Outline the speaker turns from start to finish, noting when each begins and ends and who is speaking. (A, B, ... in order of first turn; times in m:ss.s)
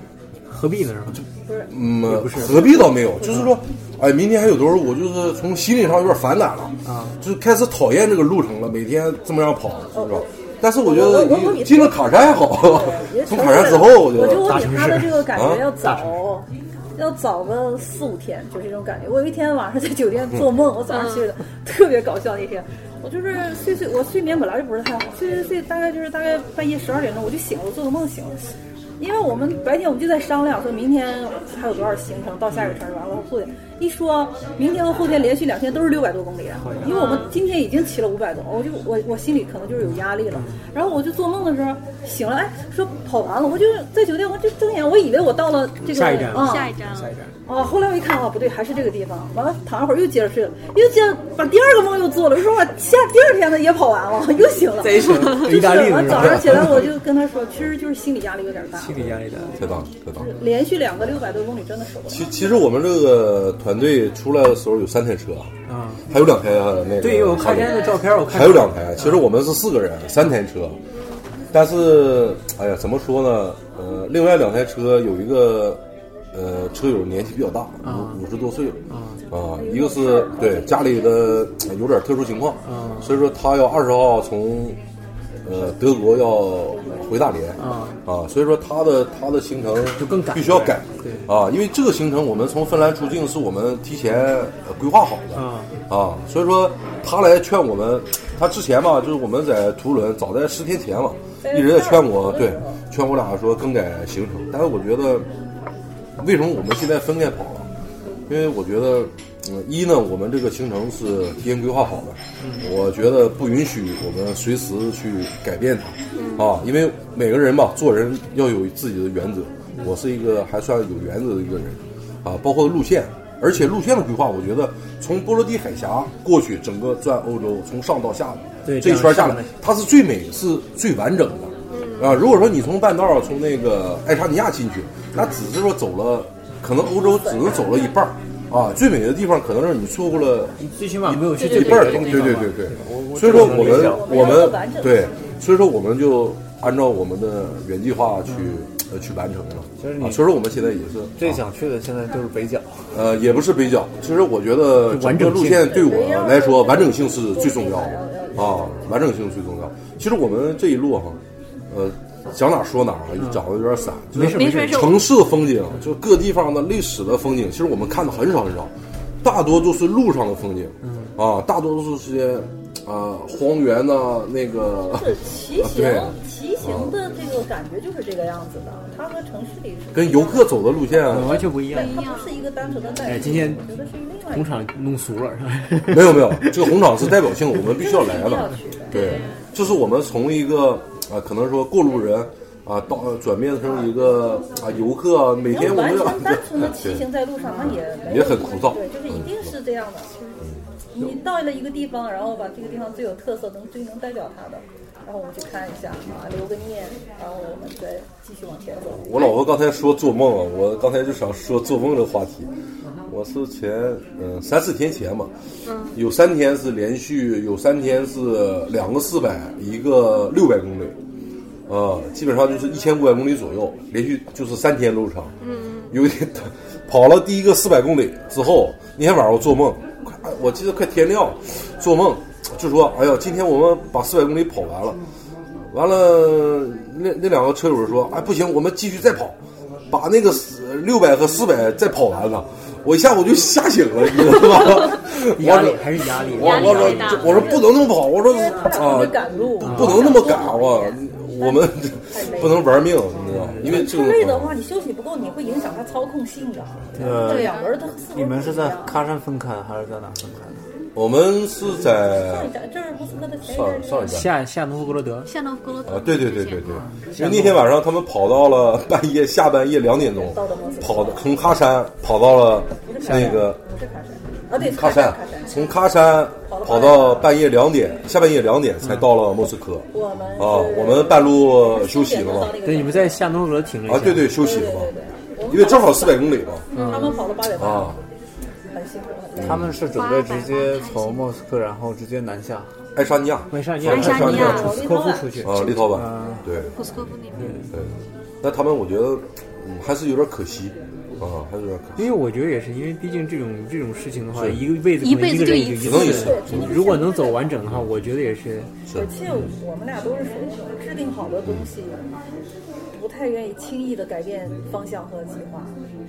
0:00.5-0:01.2 A
0:01.1-0:14.7 B
0:01.5-0:01.7 C
0:02.0-0:02.9 A
0:02.5-0:03.5 C
0:06.8-0:07.2 A
0:09.9-0:10.3 C
0:10.8-0:28.4 C
0:14.3-0:16.2 A
0:15.3-0:15.7 B
0:20.9-0:21.3 D
0:29.0-0:46.7 C
0:32.5-0:32.8 A
0:36.6-0:37.3 A
0:36.8-0:37.4 D
0:39.9-0:40.6 A
0:45.8-0:47.3 A
0:46.2-0:47.1 D
0:47.5-0:58.9 C
0:54.8-0:56.9 A
0:56.1-0:56.8 B
0:58.8-0:59.6 A
0:59.0-1:00.3 B
1:00.2-1:02.6 C
1:02.1-1:05.5 B
1:05.7-1:06.0 A
1:06.1-1:10.8 B
1:07.0-1:09.3 A
1:10.9-1:11.2 D
1:11.5-1:15.8 B
1:16.3-1:24.8 B
1:17.8-1:18.2 A
1:18.9-1:19.2 A
1:19.6-1:21.3 C
1:22.6-1:23.3 A
1:25.4-1:45.3 B
1:26.7-1:27.1 C
1:27.6-1:28.0 A
1:30.0-1:31.3 A
1:35.3-1:35.7 A
1:41.4-1:42.8 C
1:46.2-1:47.7 B
1:48.3-2:31.4 B
1:56.2-1:56.6 D
2:08.7-2:09.5 A
2:11.7-2:12.3 D
2:16.9-2:17.7 C
2:20.6-2:24.0 A
2:21.4-2:22.4 D
2:21.6-2:24.4 E
2:23.3-2:25.1 C
2:28.3-2:28.6 A
2:29.8-2:30.3 E
2:31.2-2:33.0 E
2:32.9-2:41.2 B
2:34.8-2:35.8 A
2:35.6-2:38.8 C
2:41.7-2:48.7 B
2:43.2-2:43.4 A
2:44.1-2:45.0 A
2:44.2-2:45.1 D
2:49.2-2:57.0 B
2:50.8-2:51.2 A
2:55.0-3:04.6 C
2:59.9-3:01.5 B
3:01.1-3:02.0 A
3:01.7-3:02.4 D
3:03.0-3:03.7 A
3:04.3-3:07.1 A
3:05.9-3:17.0 B
3:07.6-3:09.2 C
3:08.9-3:09.5 D
3:15.5-3:20.1 C
3:17.6-3:19.4 B
3:20.4-3:21.1 B
3:20.9-3:29.1 C
3:29.0-3:32.5 B
3:33.1-3:35.3 B
3:35.6-3:36.0 D
3:35.9-3:41.0 B
3:41.7-3:45.3 B
3:45.4-3:45.9 D
3:45.9-3:55.0 B
3:55.7-3:59.4 B
3:59.9-4:14.6 B
4:05.0-4:07.5 A
4:06.3-4:07.7 D
4:08.2-4:12.7 C
4:09.6-4:10.1 A
4:13.3-4:13.8 A
4:13.6-4:19.0 C
4:16.9-4:17.3 A
4:17.0-4:17.6 E
4:17.2-4:17.8 D
4:18.1-4:20.6 E
4:21.0-4:22.5 B
4:21.9-4:24.3 C
4:23.5-4:24.3 B
4:24.0-4:25.3 A
4:25.3-4:26.8 D
4:25.9-4:33.6 B
4:27.1-4:27.6 A
4:29.9-4:31.3 C
4:32.8-4:35.7 C
4:33.0-4:33.4 A
4:34.6-4:42.6 B
4:36.5-4:37.3 C
4:38.8-4:39.1 A
4:39.9-4:43.2 C
4:42.6-4:44.3 A
4:43.9-4:44.9 B
4:44.3-4:48.0 C
4:45.5-4:46.7 B
4:46.7-4:47.4 D
4:46.8-4:47.2 A
4:47.6-4:48.0 B
4:48.7-4:49.7 C
4:49.4-4:49.8 B
4:49.4-4:52.7 E
4:49.9-4:51.3 D
4:53.0-4:56.7 B
4:53.5-4:56.4 A
4:53.9-4:54.8 D
4:54.1-4:55.5 C
4:55.9-4:56.4 E
4:56.6-4:57.6 D
4:57.4-4:57.7 A
4:57.7-5:02.1 B
5:02.0-5:08.7 A
5:04.3-5:04.6 B
5:05.0-5:06.4 D
5:05.8-5:07.0 B
5:06.0-5:07.6 C
5:08.9-5:09.1 B
5:08.9-5:12.0 C
5:12.9-5:15.7 C